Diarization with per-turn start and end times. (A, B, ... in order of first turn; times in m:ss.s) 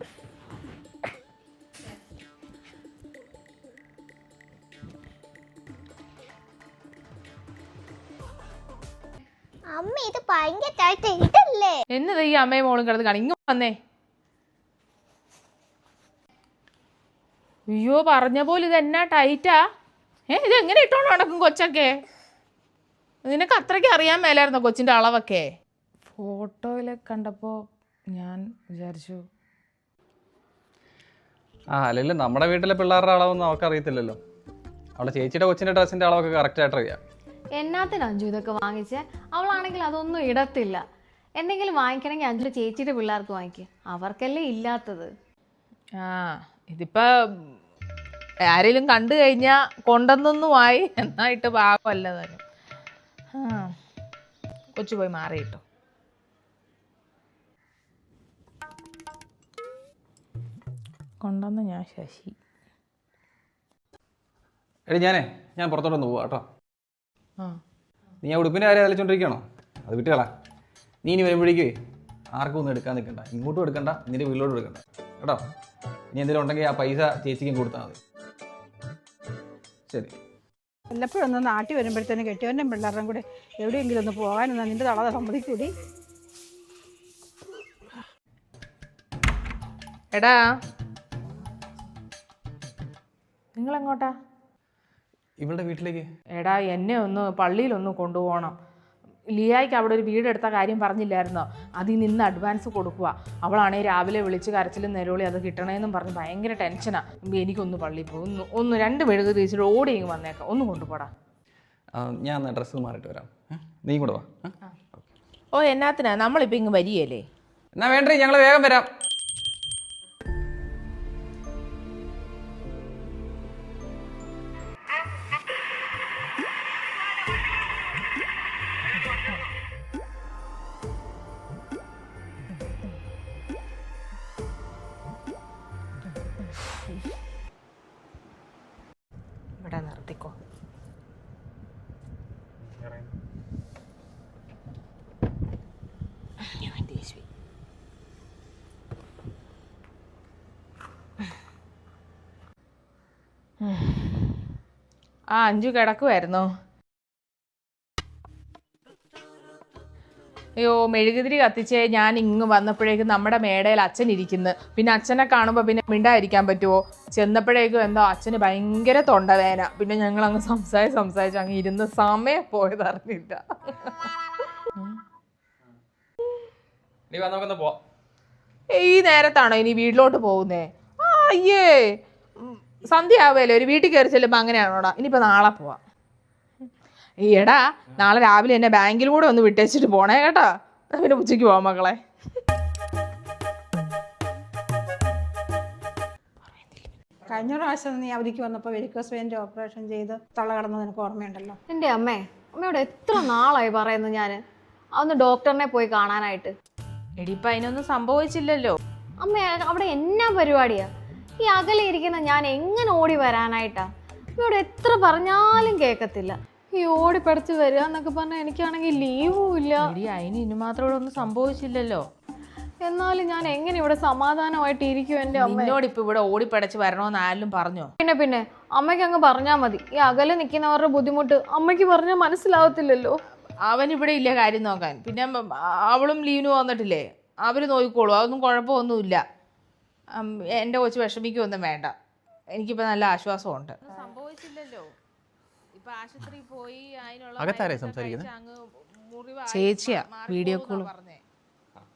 0:09.7-0:11.8 A
0:11.9-0:13.7 B
0:17.7-0:19.6 B
0:20.3-0:22.0 B
0:23.2-0:25.5 B
0:26.2-0:29.2 B
0:31.7-0:34.2 C
0:35.0-0:37.0 C
0:37.6-0:40.8 D
0:41.4-0:45.1 D
0:46.0-0:47.5 B
0:48.5-0:52.4 B
0:53.4-0:53.8 B
0:54.8-0:55.6 B
1:01.2-1:02.4 B
1:04.9-1:06.4 C
1:08.2-1:10.3 C
1:11.0-1:11.7 C
1:12.3-1:15.4 C
1:16.1-1:18.0 C
1:20.9-1:25.7 E
1:30.1-1:30.4 B
1:33.6-1:34.1 B
1:35.4-1:36.0 C
1:36.4-1:38.6 B
1:39.3-1:51.1 B
1:51.9-1:54.5 C
1:55.5-1:57.2 B
1:57.8-1:58.9 C
2:19.6-2:20.4 B
2:22.7-2:23.1 C
2:26.4-2:27.2 B
2:33.6-2:34.4 B
2:35.4-2:36.5 B
2:40.6-2:54.1 B
2:57.1-2:57.8 C
2:58.7-3:05.8 B
3:07.2-3:12.0 B
3:16.6-3:16.8 B
3:17.3-3:21.6 E
3:21.7-3:24.4 D
3:25.0-3:26.5 D
3:27.2-3:28.8 B
3:29.2-3:30.9 D
3:31.4-3:39.9 D
3:39.8-3:42.0 B
3:42.8-3:45.8 D
3:45.3-3:47.9 B
3:48.0-3:53.2 D
3:53.6-3:59.2 B
4:00.2-4:02.0 B
4:02.6-4:04.9 B
4:05.8-4:11.2 B
4:07.4-4:08.3 C